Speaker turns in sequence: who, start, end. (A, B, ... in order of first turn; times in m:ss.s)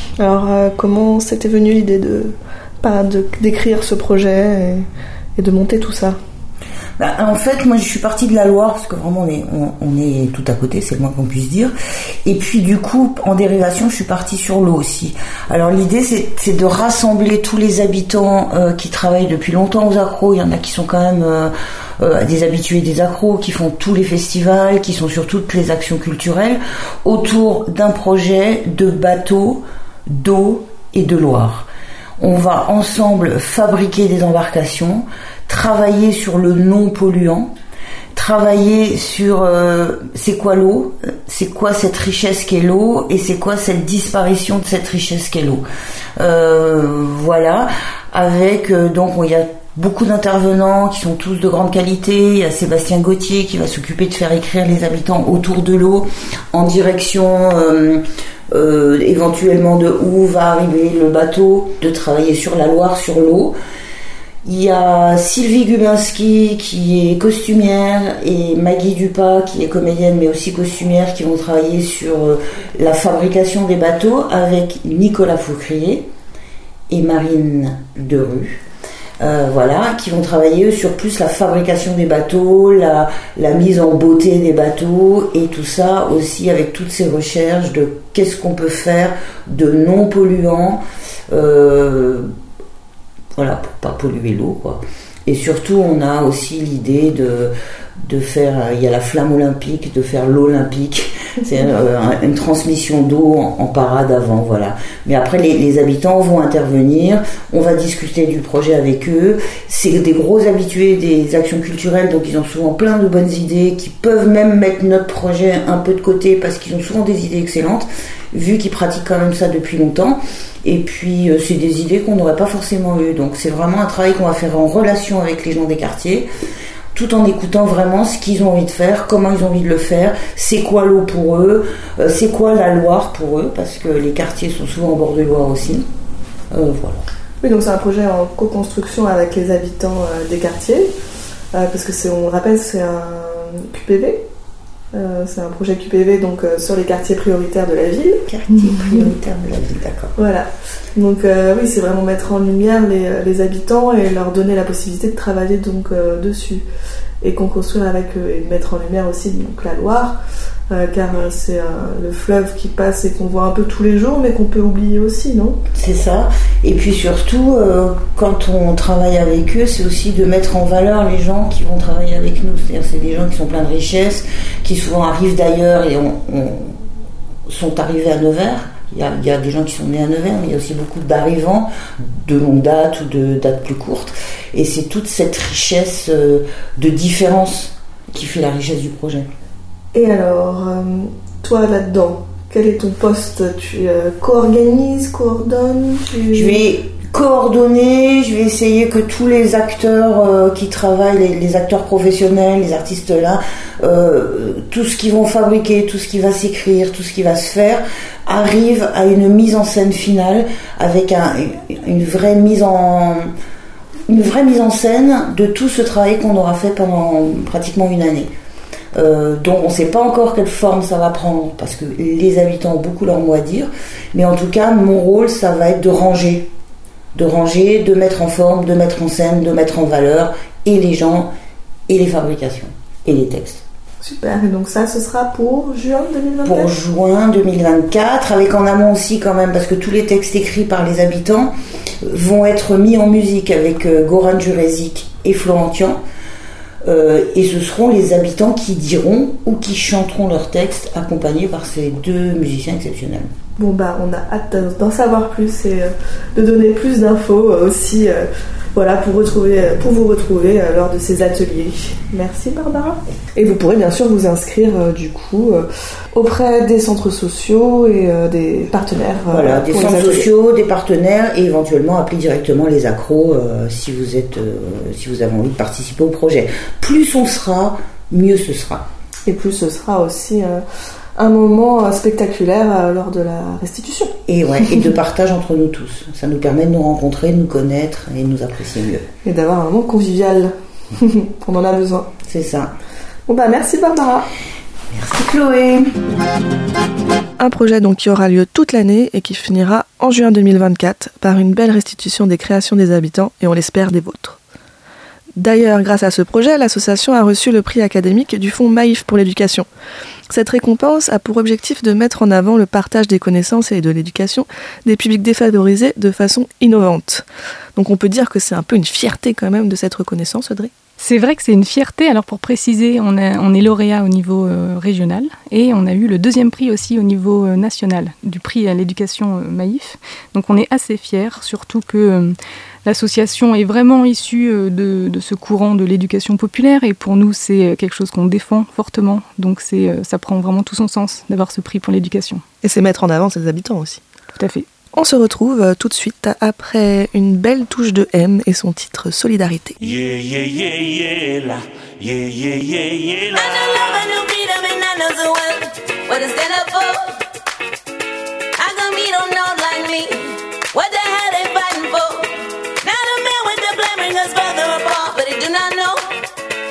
0:00.2-0:06.2 A
0:07.0-0:11.7 B
0:12.2-0:31.7 B
0:32.2-0:37.5 B
0:38.2-0:45.6 B
0:46.2-1:03.6 B
1:04.4-1:16.1 B
1:16.9-1:18.6 B
1:19.2-1:32.3 B
1:33.4-2:06.3 B
2:06.9-2:15.8 B
2:16.5-2:17.1 B
2:17.4-2:20.9 A
2:21.5-2:24.2 A
2:24.9-2:29.1 A
2:28.3-2:30.1 B
2:30.2-2:36.6 A
2:37.2-2:40.2 A
2:40.7-2:45.6 A
2:45.7-2:56.8 B
2:57.5-3:09.3 B
3:09.9-3:16.6 A
3:16.3-3:33.3 B
3:34.1-3:38.3 B
3:39.0-3:46.5 B
3:47.1-3:51.3 B
3:51.9-3:53.6 B
3:54.0-3:56.7 A
3:56.4-4:06.0 B
4:06.8-4:13.3 B
4:13.6-4:30.3 A
4:29.3-4:38.9 B
4:39.3-4:40.6 A
4:41.2-4:44.1 A
4:44.3-4:49.1 B
4:49.2-4:52.1 A
4:52.2-4:52.7 B
4:53.3-4:54.3 A
4:54.9-4:55.9 B
4:57.4-5:04.4 A
5:05.4-5:09.7 A
5:10.3-5:20.7 A
5:21.0-5:42.4 C
5:42.6-5:44.0 A
5:44.4-5:44.7 C
5:44.9-5:49.8 A
5:49.8-5:53.8 D
5:53.3-5:57.2 E
5:58.6-6:06.1 E